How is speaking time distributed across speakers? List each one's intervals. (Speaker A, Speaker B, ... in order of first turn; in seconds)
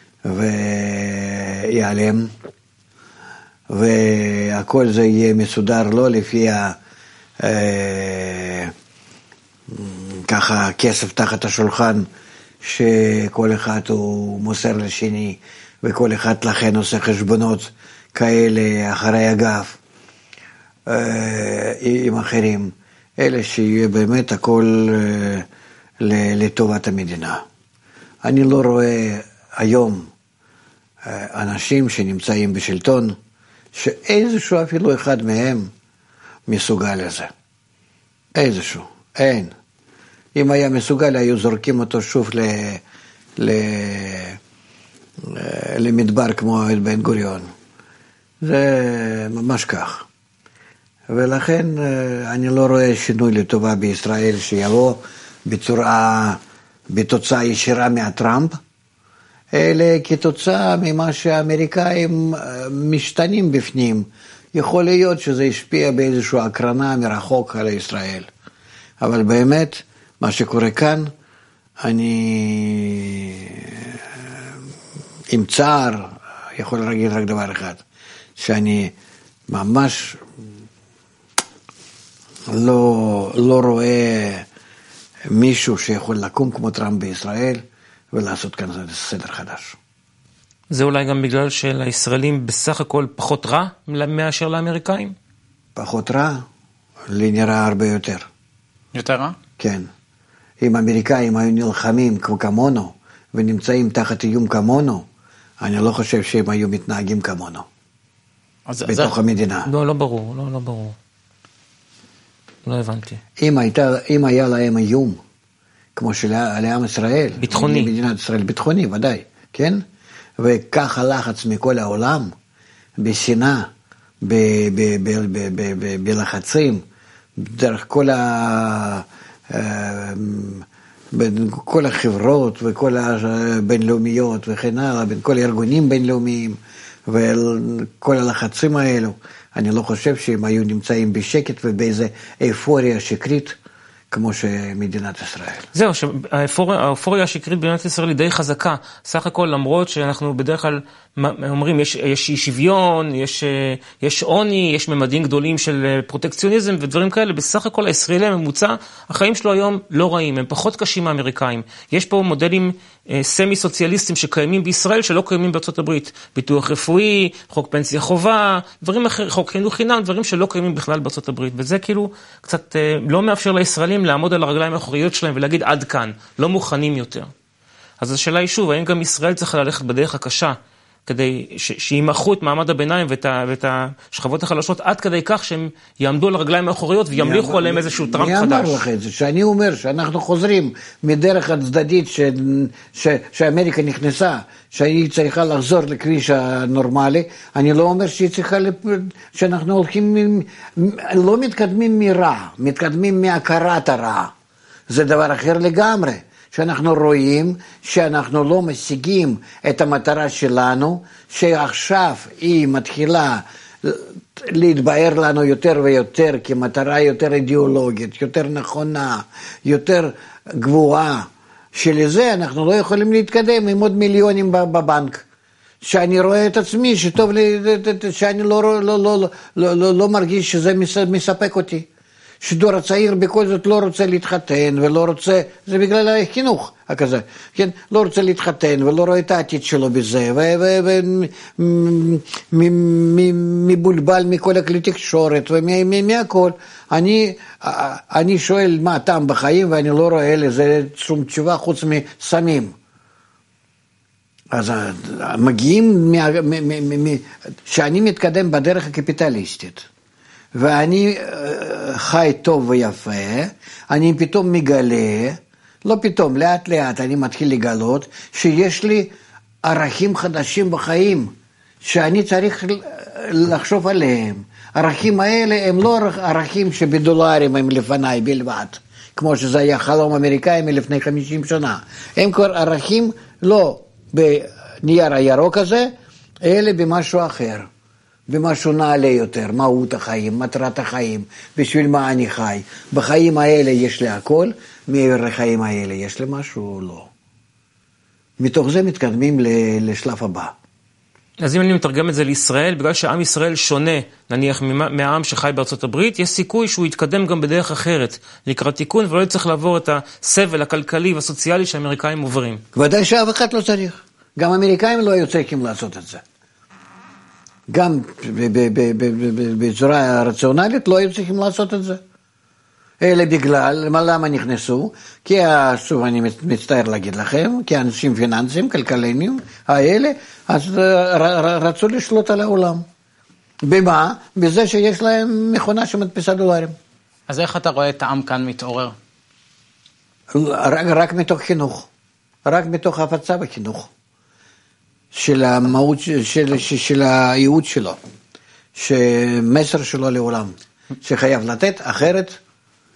Speaker A: 0.2-2.3, 3.7-6.8, 7.4-8.7, 9.7-12.1, 12.6-19.8, 20.9-25.4, 26.0-27.4, 28.2-30.1, 31.0-33.1, 33.7-35.7, 36.5-37.3, 38.3-39.5, 40.3-42.8, 43.4-44.4, 45.2-47.5, 48.4-50.0, 51.1-58.5, 59.5-68.3, 69.0-71.1, 71.8-74.4, 75.3-77.8, 78.3-78.9, 79.5-80.2, 82.5-84.5, 85.3-89.8, 95.8-96.4, 97.1-98.3, 99.6-99.9, 100.6-105.0, 105.6-107.7, 108.9-109.7, 113.4-115.2, 116.0-119.8, 120.4-122.3, 123.0-123.7, 124.2-126.8, 127.4-143.6, 144.1-145.7, 187.2-204.3, 204.9-225.2, 225.8-231.9, 232.4-252.7, 254.5-259.9, 260.5-269.1, 269.6-285.9, 286.4-287.7, 288.3-297.1, 298.4-300.5, 312.7-316.2, 317.7-322.0, 323.0-332.8, 333.6-336.7, 340.3-341.9, 342.4-343.9, 345.1-348.0, 348.7-352.4
Speaker B: 90.7-95.1, 109.7-111.0, 112.6-113.2, 117.4-117.9, 145.7-177.3, 178.0-188.8, 301.4-312.6
Speaker C: 98.9-99.3, 108.7-109.1, 337.3-338.9